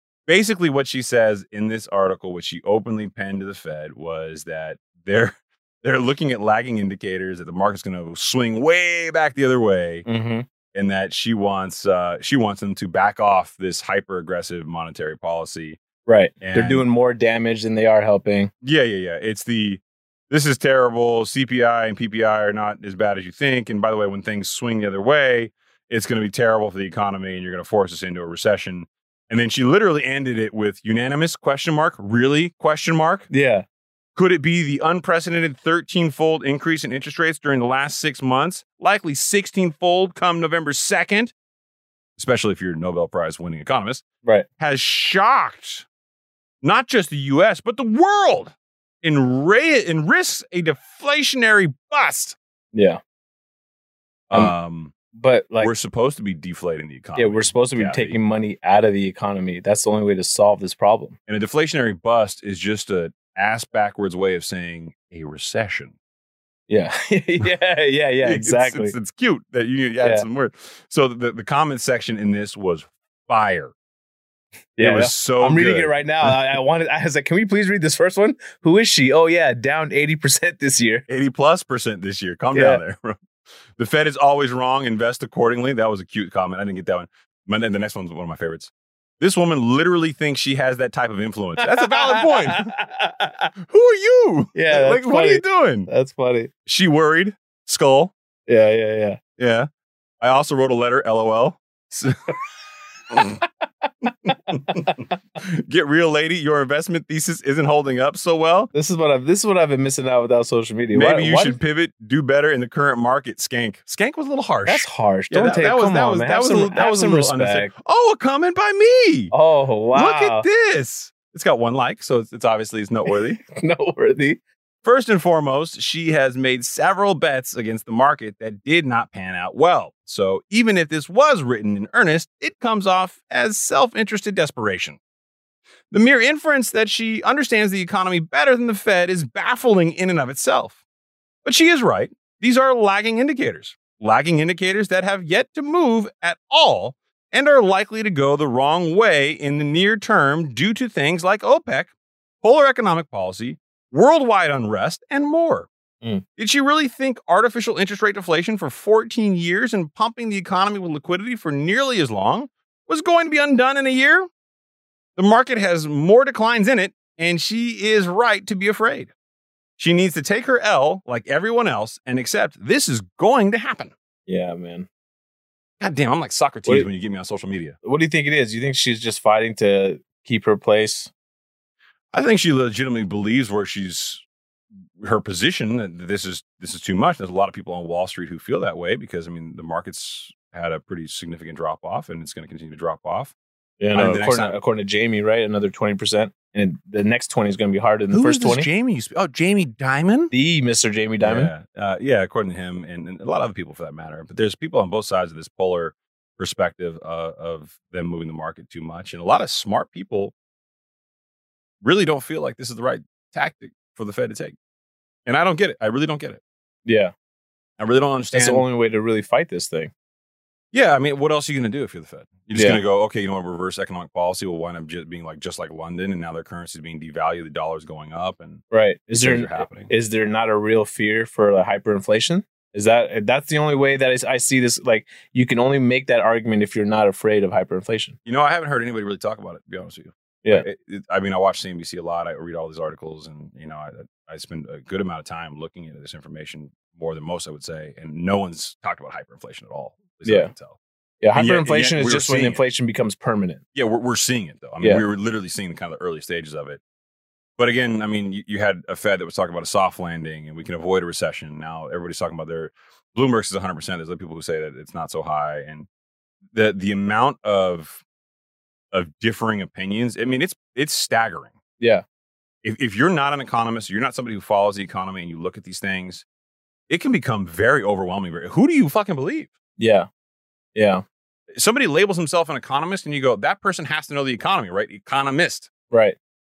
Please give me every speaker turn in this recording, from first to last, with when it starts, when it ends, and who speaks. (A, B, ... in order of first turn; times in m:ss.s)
0:00.3-0:10.0 A
0:10.0-0:10.5 B
0:10.7-0:15.8 A
0:16.0-0:18.5 B
0:16.4-0:16.8 A
0:18.6-0:33.3 A
0:33.3-0:33.6 B
0:34.2-0:41.3 A
0:42.2-0:44.0 A
0:44.6-0:45.8 A
0:46.6-0:52.4 A
0:52.7-0:53.0 B
0:54.3-0:54.9 A
0:55.1-0:55.7 B
0:55.6-0:58.2 A
0:57.2-1:01.2 B
1:01.3-1:05.9 A
1:06.7-1:09.0 B
1:08.2-1:13.7 A
1:10.0-1:10.2 B
1:14.8-1:21.0 B
1:14.8-1:16.6 A
1:21.1-1:23.2 A
1:22.5-1:22.8 B
1:23.8-1:32.7 A
1:31.6-1:33.5 B
1:33.6-1:35.9 A
1:34.5-1:36.5 B
1:36.6-1:38.1 A
1:38.5-1:39.2 B
1:39.4-1:39.7 A
1:40.2-1:42.3 A
1:43.1-1:43.4 A
1:43.2-1:45.1 B
1:44.2-1:48.7 A
1:48.7-1:51.6 B
1:50.9-1:59.3 A
1:54.6-1:57.7 B
1:59.3-2:00.4 B
1:59.9-2:03.4 A
2:03.1-2:04.4 B
2:04.8-2:15.0 A
2:15.9-2:20.8 A
2:21.4-2:31.9 A
2:32.4-2:35.7 A
2:36.4-2:44.3 A
2:45.2-2:49.1 A
2:49.8-2:53.9 A
2:54.3-2:54.9 B
2:55.8-2:57.8 A
2:57.8-3:01.1 B
3:02.1-3:04.2 A
3:05.0-3:13.3 A
3:13.8-3:18.7 B
3:13.9-3:14.5 A
3:18.1-3:20.3 A
3:20.3-3:21.5 B
3:21.2-3:30.3 A
3:31.8-3:34.6 A
3:35.2-3:36.4 A
3:36.8-3:37.1 B
3:37.8-3:38.6 A
3:38.3-3:39.9 B
3:40.7-3:48.6 A
3:42.5-3:42.8 B
3:48.7-3:58.2 B
3:49.2-3:49.9 A
3:58.2-4:10.8 A
4:10.2-4:10.5 B
4:11.2-4:13.6 B
4:11.3-4:12.6 A
4:13.7-4:16.8 A
4:17.6-4:25.9 A
4:26.5-4:28.0 A
4:28.9-4:31.5 A
4:31.8-4:32.0 B
4:32.6-4:36.2 A
4:36.9-4:39.5 A
4:39.8-4:40.1 B
4:40.7-4:41.0 B
4:41.5-4:45.7 A
4:45.9-4:46.2 B